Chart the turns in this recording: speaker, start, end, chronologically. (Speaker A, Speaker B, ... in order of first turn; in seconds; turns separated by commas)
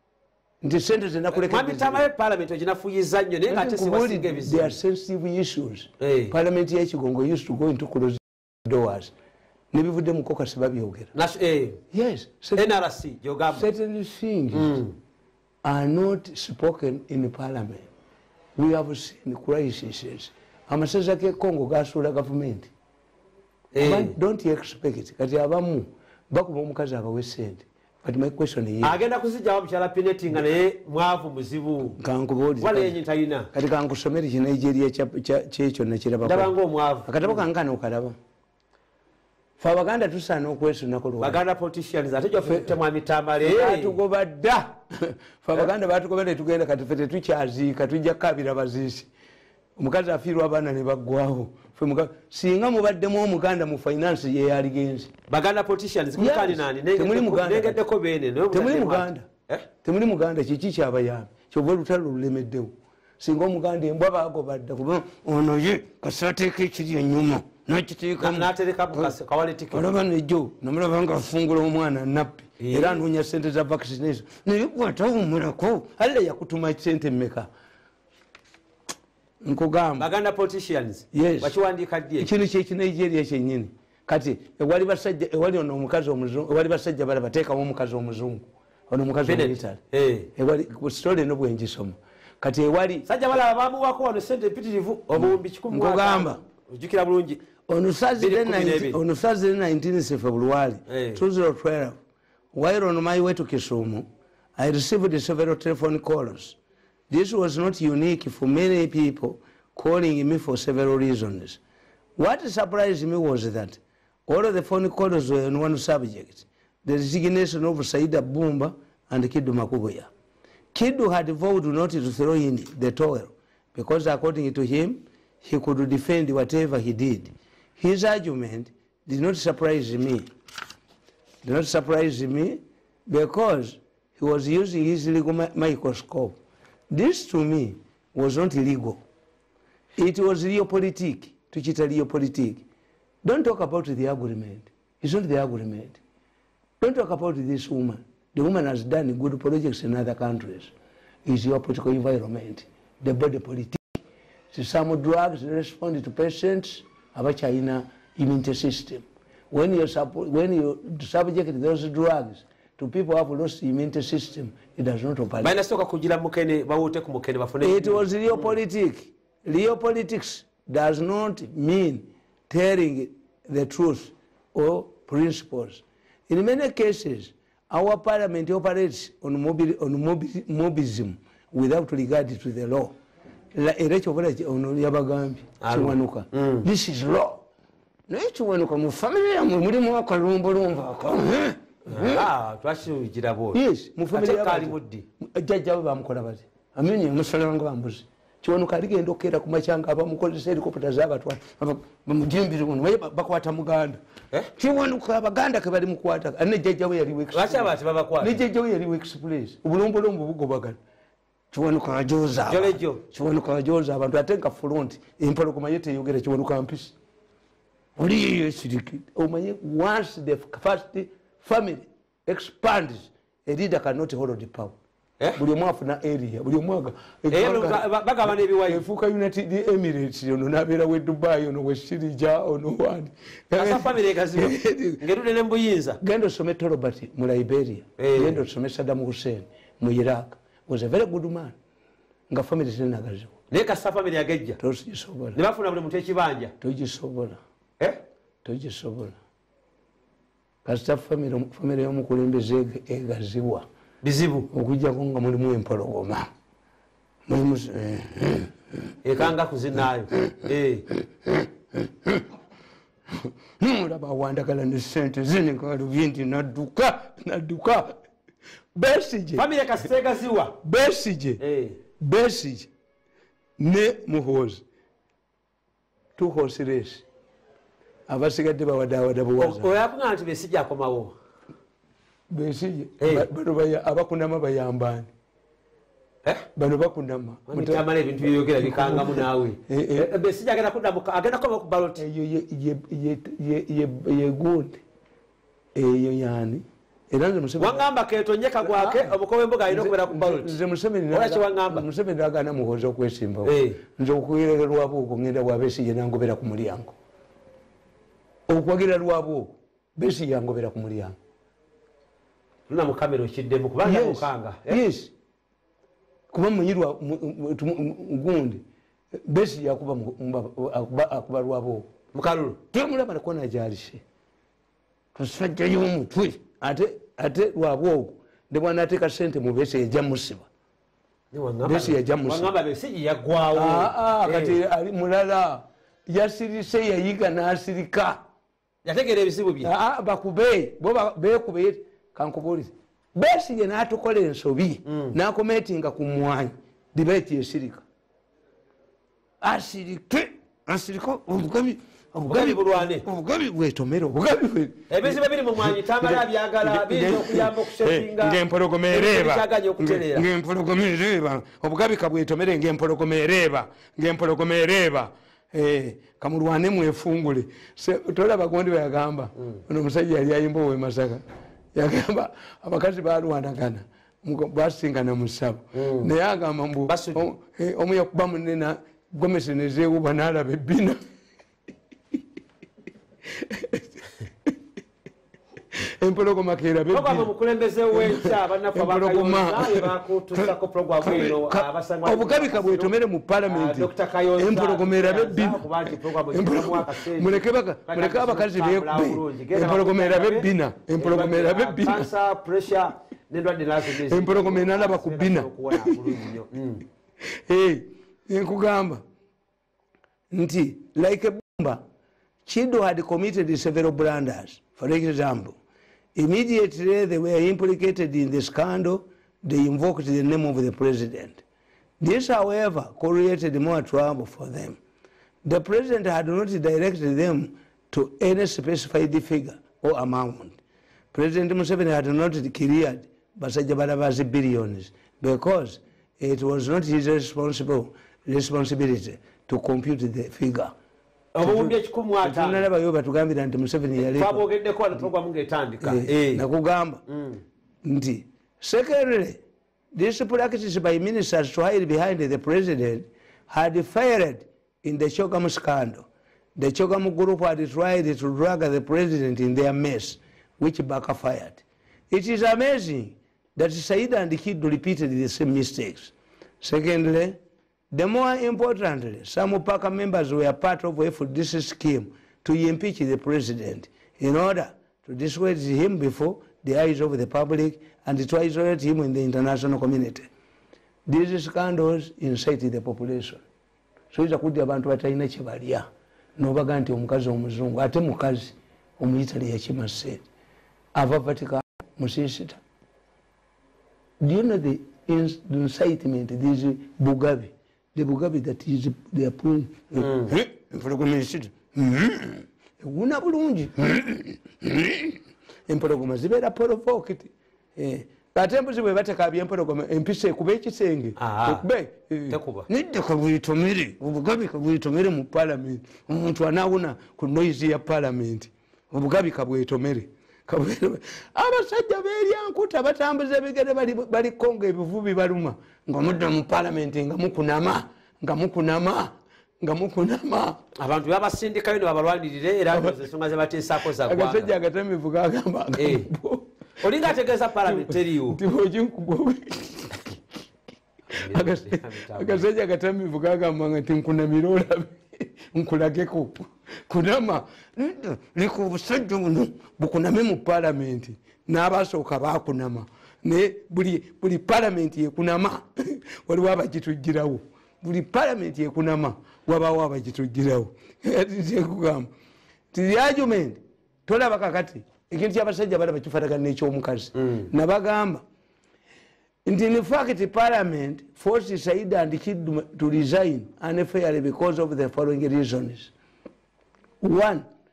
Speaker A: 0.6-2.0, Speaker B: 1.3-4.8, Speaker A: 3.5-9.1, Speaker B: 6.0-6.3, Speaker A: 9.7-11.1, Speaker B: 11.1-11.8, Speaker A: 11.9-12.7, Speaker B: 12.6-13.7, Speaker A: 13.5-14.8, Speaker B: 14.5-14.9, Speaker A: 15.6-17.9, Speaker A: 18.6-22.7, Speaker B: 23.7-24.1, Speaker A: 23.8-29.0, Speaker B: 28.8-31.9, Speaker A: 31.9-33.0, Speaker B: 32.6-33.5, Speaker A: 33.5-36.5, Speaker B: 36.2-37.4, Speaker A: 37.0-38.1, Speaker A: 39.6-41.4, Speaker B: 41.2-44.0, Speaker A: 42.4-42.7, Speaker A: 43.4-49.1, Speaker A: 49.8-55.1, Speaker B: 55.3-59.6, Speaker A: 56.2-57.8, Speaker A: 58.5-59.3, Speaker A: 59.8-69.1, Speaker B: 68.2-69.9, Speaker A: 69.7-77.5, Speaker B: 72.6-73.0, Speaker A: 79.4-80.1, Speaker B: 80.0-82.3, Speaker A: 81.1-81.5, Speaker A: 82.2-89.8, Speaker B: 89.2-90.3, Speaker A: 90.3-93.1, Speaker B: 93.0-97.4, Speaker A: 95.2-96.4, Speaker A: 97.7-102.0, Speaker B: 98.2-99.0, Speaker B: 100.9-101.2, Speaker A: 102.5-106.6, Speaker A: 107.1-111.6, Speaker A: 112.2-120.1, Speaker A: 120.7-130.3, Speaker A: 131.4-136.4, Speaker A: 136.9-139.0, Speaker A: 140.0-142.6, Speaker A: 143.2-146.0, Speaker A: 146.8-150.7, Speaker A: 151.2-165.6, Speaker B: 165.4-168.5, Speaker A: 167.6-182.9, Speaker A: 183.5-187.4, Speaker B: 185.6-186.6, Speaker A: 188.1-192.3, Speaker B: 191.9-193.6, Speaker A: 193.5-204.0, Speaker B: 194.1-195.0, Speaker A: 204.5-210.8, Speaker B: 207.3-208.4, Speaker A: 211.5-216.9, Speaker B: 212.5-213.0, Speaker A: 218.0-224.7, Speaker A: 225.3-235.0, Speaker B: 227.3-228.8, Speaker B: 233.5-236.0, Speaker A: 236.0-241.6, Speaker B: 238.0-238.4, Speaker A: 242.3-243.3, Speaker B: 243.5-244.6, Speaker A: 244.6-245.4, Speaker B: 245.3-246.5, Speaker A: 246.6-247.4, Speaker A: 248.4-249.2, Speaker A: 250.6-253.7, Speaker B: 254.0-254.5, Speaker A: 254.5-256.3, Speaker A: 257.3-258.5, Speaker B: 259.0-260.9, Speaker A: 261.2-262.2, Speaker A: 263.1-268.0, Speaker A: 268.7-269.5, Speaker B: 269.4-270.6, Speaker A: 270.6-271.4, Speaker B: 271.4-271.8, Speaker A: 272.0-272.7, Speaker A: 273.6-274.6, Speaker A: 276.2-277.0, Speaker A: 278.1-279.8, Speaker B: 279.4-281.1, Speaker A: 282.3-285.1, Speaker B: 283.0-283.3, Speaker A: 286.5-290.1, Speaker B: 287.5-292.0, Speaker A: 292.0-294.8, Speaker A: 295.7-297.8, Speaker B: 297.6-300.6, Speaker A: 298.6-299.2, Speaker A: 299.7-306.9, Speaker B: 301.1-301.8, Speaker B: 303.4-303.8, Speaker A: 308.5-311.1, Speaker B: 312.7-314.8, Speaker A: 313.8-315.1, Speaker A: 316.3-318.6, Speaker A: 319.2-321.9, Speaker B: 322.1-322.6, Speaker A: 322.7-324.0, Speaker A: 325.1-330.5, Speaker B: 331.3-334.6, Speaker A: 331.6-332.5, Speaker A: 333.5-338.2, Speaker B: 338.8-339.7, Speaker A: 339.6-347.8, Speaker B: 344.9-345.1, Speaker A: 349.4-371.2, Speaker B: 352.2-353.0, Speaker B: 354.9-358.4, Speaker B: 358.9-360.3, Speaker A: 371.7-381.0, Speaker B: 375.7-376.1, Speaker B: 376.9-377.2, Speaker A: 383.4-383.9, Speaker A: 385.8-387.3, Speaker B: 386.9-392.9, Speaker A: 387.9-402.1, Speaker B: 393.4-406.8, Speaker A: 404.0-406.1, Speaker A: 407.2-409.0, Speaker A: 410.3-411.8, Speaker A: 412.4-415.5, Speaker A: 416.1-421.4, Speaker A: 422.0-424.8, Speaker A: 425.4-430.6, Speaker A: 431.1-440.7, Speaker B: 441.3-442.6, Speaker A: 441.4-444.4, Speaker B: 443.9-446.4, Speaker A: 445.8-447.0, Speaker B: 447.1-447.4, Speaker A: 447.8-449.4, Speaker A: 449.9-467.4, Speaker A: 467.9-480.3, Speaker A: 481.1-483.4, Speaker A: 484.1-485.9, Speaker A: 486.4-490.2, Speaker A: 490.9-492.6, Speaker A: 494.2-530.6, Speaker B: 500.0-500.3, Speaker B: 511.2-511.6, Speaker B: 512.3-512.6, Speaker B: 530.8-534.5, Speaker A: 534.0-536.5, Speaker B: 535.8-536.1, Speaker B: 536.8-538.4, Speaker A: 537.6-540.1, Speaker B: 541.1-542.4, Speaker A: 541.1-562.1, Speaker A: 562.7-568.2, Speaker B: 567.2-567.5, Speaker A: 569.5-575.9, Speaker A: 577.0-577.5